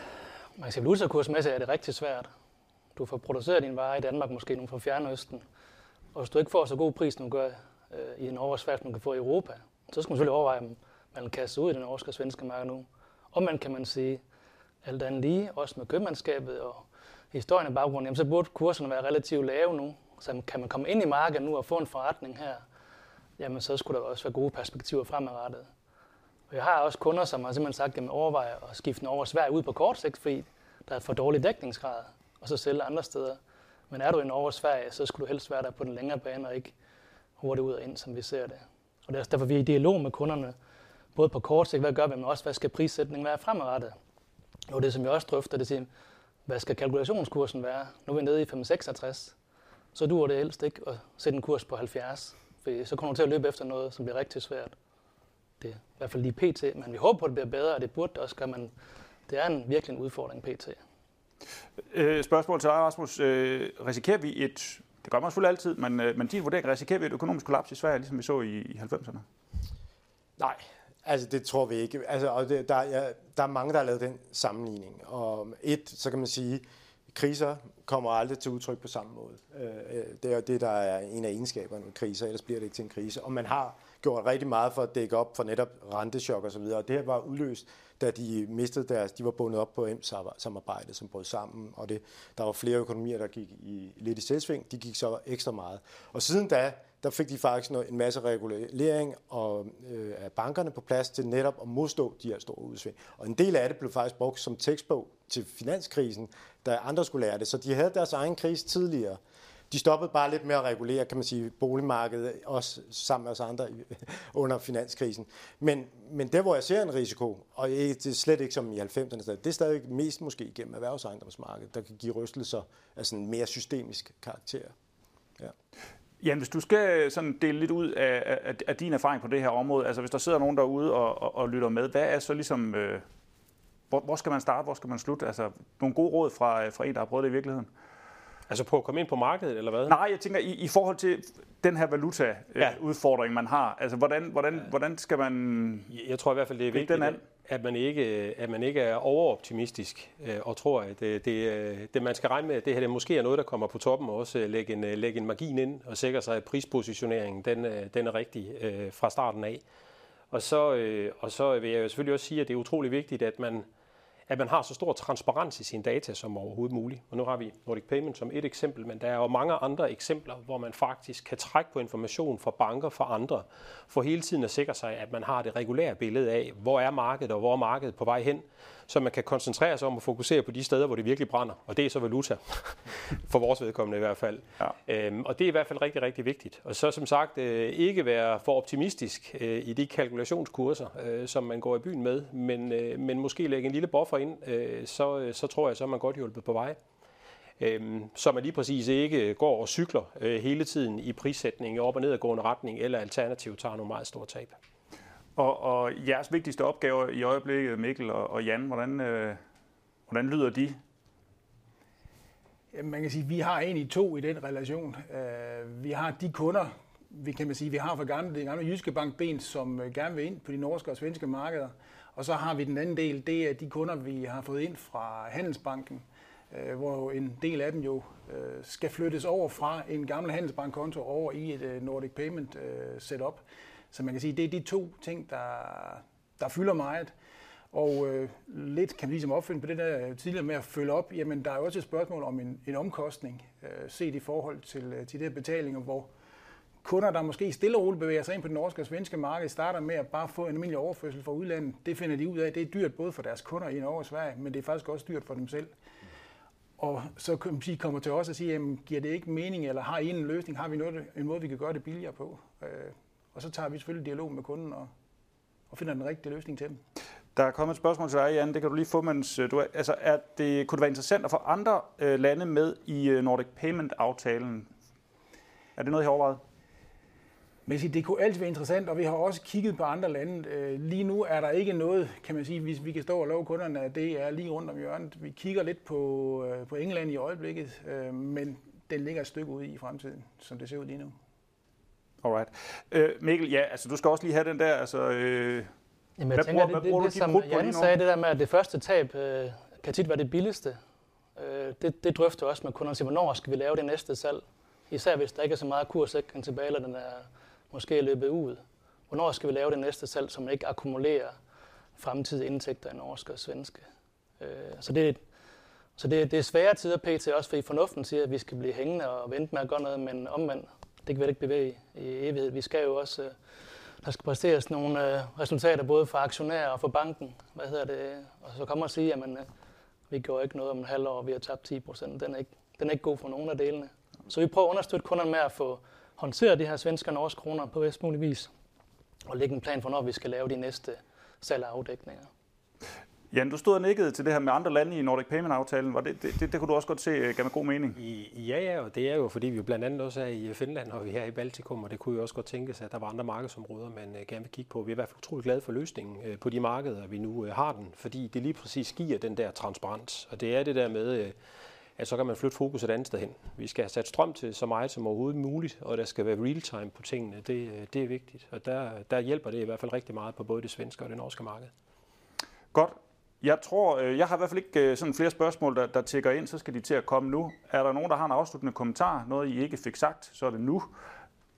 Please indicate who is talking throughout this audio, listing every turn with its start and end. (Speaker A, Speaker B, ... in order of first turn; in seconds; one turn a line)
Speaker A: 0.6-2.3
Speaker A: 3.0-5.4
Speaker A: 6.2-14.2
Speaker A: 14.8-22.6
Speaker A: 23.4-25.7
Speaker A: 26.5-33.4
Speaker A: 33.9-36.7
Speaker A: 37.4-40.5
Speaker A: 41.1-44.0
Speaker A: 44.7-45.9
Speaker A: 46.5-49.4
Speaker A: 50.0-54.8
Speaker A: 55.6-58.7
Speaker A: 59.3-60.8
Speaker B: 61.9-69.2
Speaker C: 70.4-109.2
Speaker C: 109.7-124.7
Speaker B: 126.2-133.0
Speaker B: 133.9-137.7
Speaker D: 138.5-140.0
Speaker B: 139.9-145.9
Speaker D: 145.9-159.6
Speaker B: 146.7-147.2
Speaker D: 160.3-163.7
Speaker D: 164.3-196.8
Speaker D: 197.6-204.6
Speaker B: 205.4-209.4
Speaker B: 210.1-210.8
Speaker E: 212.7-237.1
Speaker E: 237.7-246.1
Speaker E: 246.8-255.7
Speaker E: 256.8-264.9
Speaker E: 265.7-266.8
Speaker B: 267.4-274.7
Speaker B: 275.8-276.4
Speaker E: 277.7-291.1
Speaker B: 292.2-295.7
Speaker A: 296.2-300.8
Speaker B: 296.4-297.9
Speaker A: 301.4-311.4
Speaker A: 312.0-313.8
Speaker A: 314.4-315.2
Speaker A: 316.0-323.4
Speaker A: 324.0-329.5
Speaker A: 330.1-338.5
Speaker A: 339.3-342.3
Speaker B: 343.3-348.0
Speaker D: 348.0-361.4
Speaker D: 362.0-371.7
Speaker B: 372.7-380.9